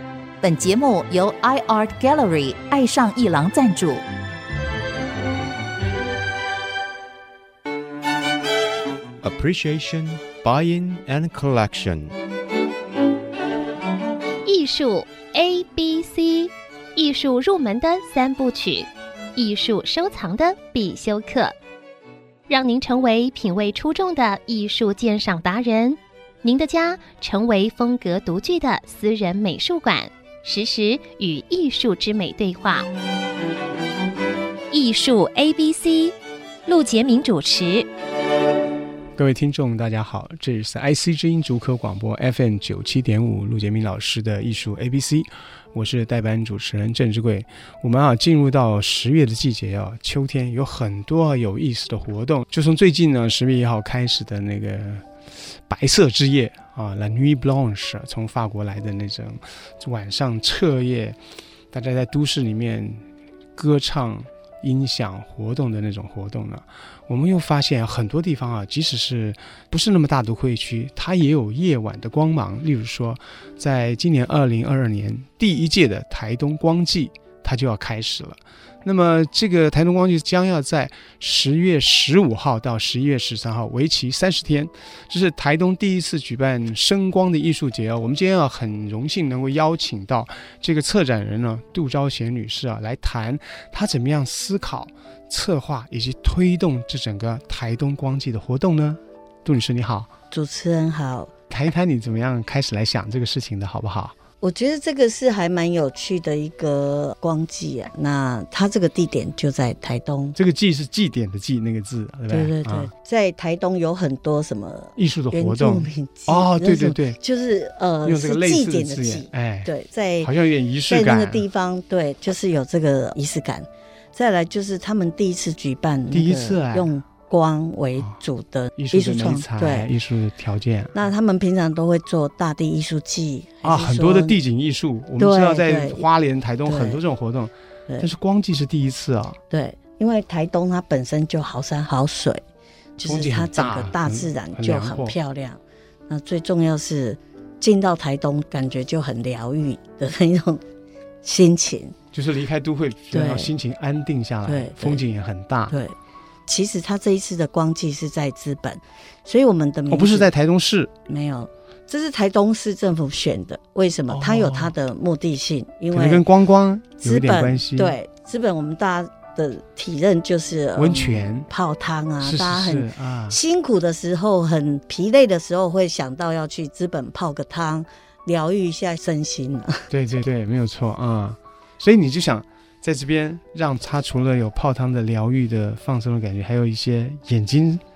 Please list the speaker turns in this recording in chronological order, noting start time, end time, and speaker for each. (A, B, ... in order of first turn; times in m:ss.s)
0:00.4-0:04.0 A
0:09.2-0:12.1 B
0:14.4-0:21.5 C
0:22.5-0:32.9 C
0:34.7-0:36.1 C
0:36.7-0:37.9 C
0:39.2-0:55.0 D
0:55.7-1:01.2 D
1:01.7-1:03.0 D
1:03.6-1:40.1 D
1:40.3-1:41.3 E
1:41.5-1:44.2 D
1:44.4-1:50.4 E
1:50.4-1:52.9 D
1:52.3-2:00.3 E
1:55.0-1:57.2 D
1:58.0-1:59.7 D
2:00.2-2:01.4 D
2:00.9-2:09.9 E
2:06.1-2:06.9 D
2:08.8-2:11.0 D
2:10.9-2:14.4 E
2:13.6-2:19.4 D
2:15.2-2:16.0 E
2:16.6-2:17.0 E
2:19.5-2:22.4 E
2:23.0-2:30.6 E
2:23.0-2:25.2 D
2:31.2-2:32.0 E
2:32.1-2:35.7 D
2:33.1-2:33.5 E
2:34.4-2:35.0 E
2:35.7-2:35.9 E
2:36.5-2:40.3 E
2:39.9-2:40.9 D
2:41.1-2:46.2 E
2:44.1-2:44.7 D
2:45.9-2:48.0 D
2:47.0-2:59.9 E
2:50.8-2:51.5 D
2:52.2-2:53.4 D
2:59.9-3:07.8 D